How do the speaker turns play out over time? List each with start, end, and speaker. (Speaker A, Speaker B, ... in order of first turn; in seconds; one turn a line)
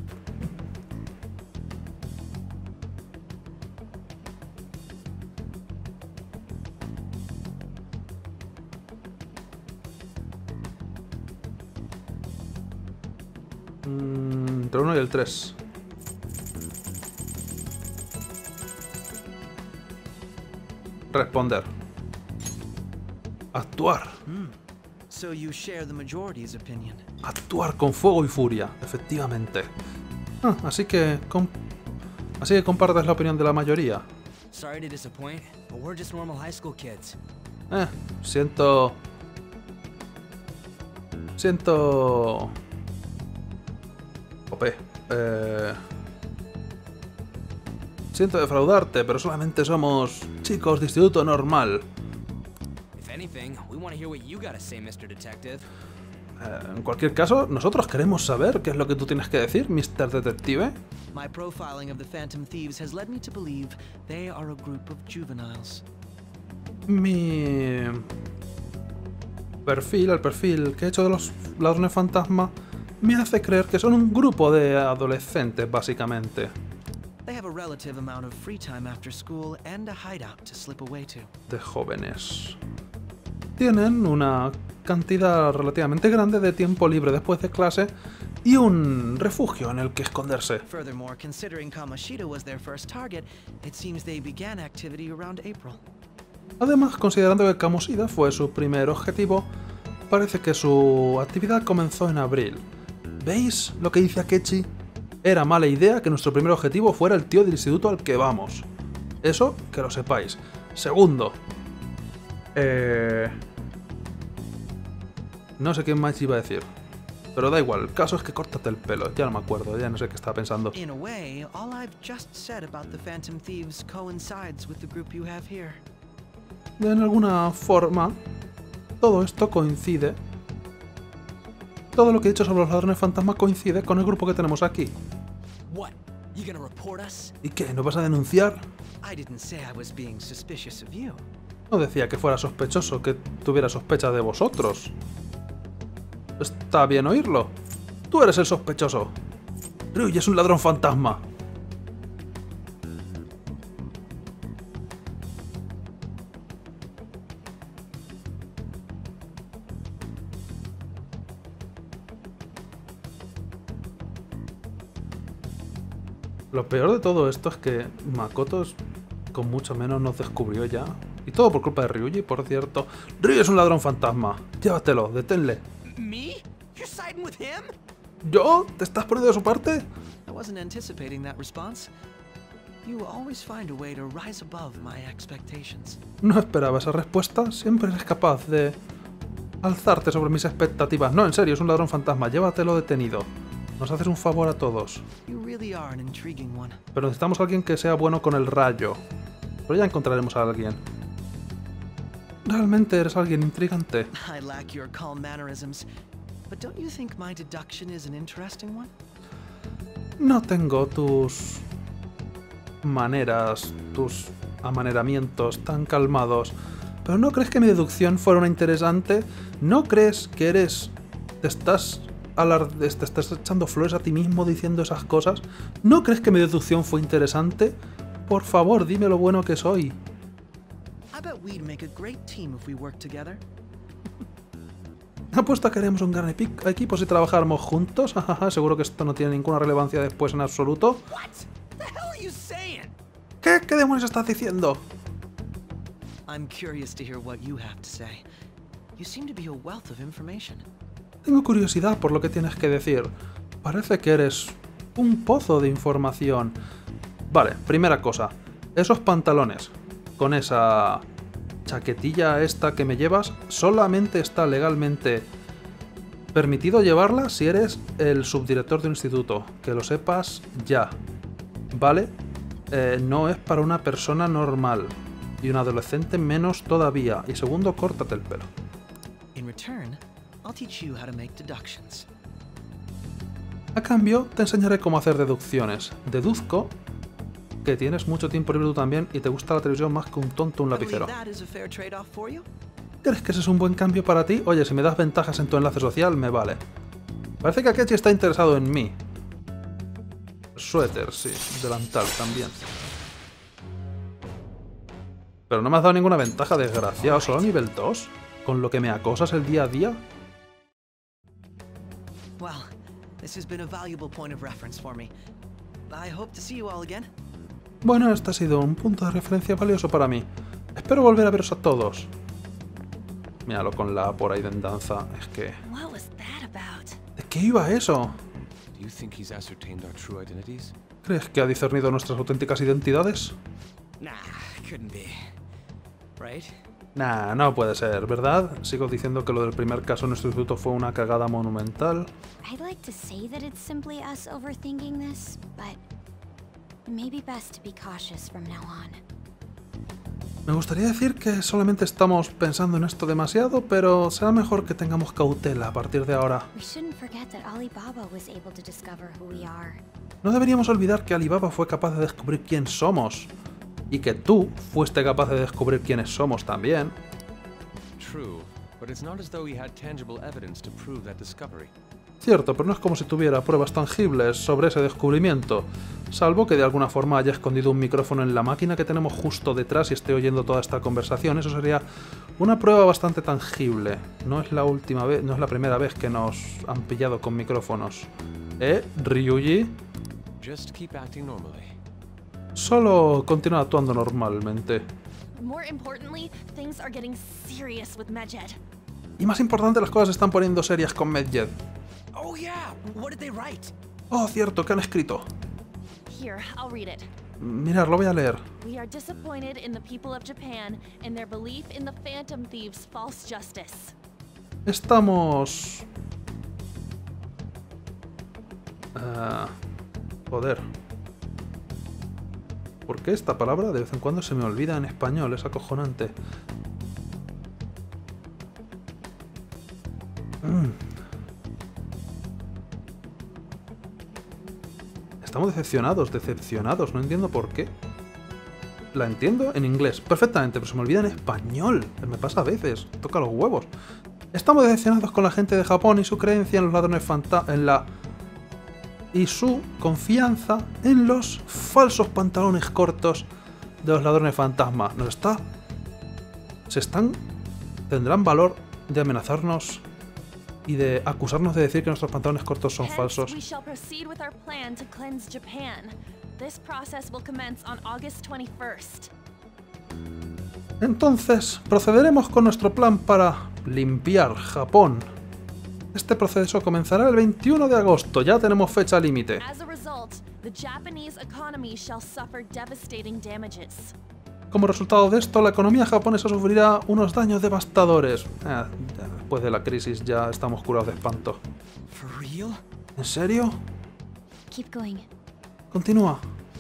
Speaker A: 13.8-15.6
Speaker A: 21.1-21.7
Speaker A: 23.5-24.2
Speaker B: 24.3-24.5
Speaker B: 25.1-27.1
Speaker A: 27.2-29.7
Speaker A: 30.4-31.5
Speaker A: 32.4-34.1
Speaker C: 34.5-37.2
Speaker A: 37.7-39.0
Speaker A: 41.4-42.5
Speaker A: 44.5-45.8
Speaker A: 48.1-51.9
Speaker C: 53.0-55.7
Speaker A: 56.4-60.8
Speaker B: 61.1-65.8
Speaker A: 66.9-68.1
Speaker A: 69.7-76.5
Speaker B: 77.2-81.3
Speaker A: 81.5-82.6
Speaker A: 83.6-87.9
Speaker A: 88.5-90.7
Speaker B: 90.7-95.8
Speaker A: 96.6-99.5
Speaker A: 100.1-102.6
Speaker A: 103.2-104.7
Speaker A: 105.2-108.7
Speaker A: 109.2-111.4
Speaker A: 112.5-113.4
Speaker A: 115.6-116.7
Speaker A: 117.4-120.8
Speaker B: 120.8-125.8
Speaker A: 126.8-128.2
Speaker A: 129.0-130.2
Speaker A: 131.9-134.9
Speaker C: 135.7-137.3
Speaker A: 137.4-138.6
Speaker B: 139.0-141.2
Speaker A: 141.7-144.9
Speaker A: 146.4-147.5
Speaker A: 148.1-149.1
Speaker A: 149.9-151.2
Speaker A: 166.5-168.8
Speaker A: 169.3-175.6
Speaker C: 175.8-177.7
Speaker A: 178.2-179.9
Speaker B: 180.3-181.9
Speaker B: 182.8-186.0
Speaker A: 186.2-188.8
Speaker A: 189.6-193.3
Speaker A: 193.8-195.1
Speaker B: 195.3-196.8
Speaker A: 196.9-199.0
Speaker A: 199.7-200.8
Speaker A: 202.4-204.1
Speaker B: 204.1-205.9
Speaker B: 206.5-208.9
Speaker A: 210.2-211.7
Speaker A: 212.8-227.8
Speaker A: 228.3-230.0
Speaker B: 231.1-233.4
Speaker A: 235.3-241.0
Speaker C: 241.1-242.9
Speaker A: 243.4-244.8
Speaker B: 246.3-248.2
Speaker B: 249.0-250.7
Speaker A: 251.2-253.1
Speaker A: 253.6-256.6
Speaker A: 257.3-261.0
Speaker A: 261.7-265.3
Speaker A: 266.3-270.9
Speaker A: 271.7-272.1
Speaker A: 272.7-278.5
Speaker B: 279.4-282.1
Speaker A: 283.8-286.7
Speaker A: 287.6-291.1
Speaker B: 290.7-292.5
Speaker A: 293.0-296.6
Speaker A: 297.4-299.0
Speaker A: 300.6-302.6
Speaker A: 305.5-310.0
Speaker B: 312.4-312.7
Speaker B: 313.2-315.1
Speaker B: 315.9-317.1
Speaker A: 317.8-322.1
Speaker A: 323.5-325.6
Speaker D: 325.6-327.0
Speaker A: 327.2-328.2
Speaker E: 328.7-330.8
Speaker A: 331.1-333.4
Speaker C: 334.0-335.3
Speaker C: 336.2-336.6
Speaker A: 337.0-342.1
Speaker F: 342.4-345.8
Speaker F: 346.9-349.0
Speaker A: 350.5-356.5
Speaker F: 356.5-359.8
Speaker A: 360.2-363.3
Speaker A: 363.9-366.9
Speaker E: 368.0-371.7
Speaker A: 372.2-381.8
Speaker A: 382.4-389.8
Speaker E: 390.4-391.8
Speaker A: 392.6-394.9
Speaker D: 395.4-398.6
Speaker A: 399.2-401.6
Speaker C: 402.1-403.7
Speaker A: 404.1-405.3
Speaker D: 406.1-407.1
Speaker A: 407.4-408.4
Speaker D: 408.6-413.9
Speaker A: 414.7-415.9
Speaker A: 418.9-419.5
Speaker A: 420.3-420.7
Speaker A: 422.9-426.1
Speaker A: 430.4-430.8
Speaker A: 435.2-437.7
Speaker A: 438.9-443.7
Speaker A: 444.3-447.9
Speaker A: 449.1-453.3
Speaker A: 453.8-455.4
Speaker A: 456.7-457.2
Speaker A: 457.9-459.8
Speaker A: 460.7-463.4
Speaker D: 462.8-469.1
Speaker A: 470.8-475.1
Speaker A: 475.9-479.4
Speaker D: 479.4-483.9
Speaker A: 484.5-491.4
Speaker C: 491.9-492.6
Speaker A: 493.0-493.6
Speaker F: 494.5-495.1
Speaker A: 495.7-496.2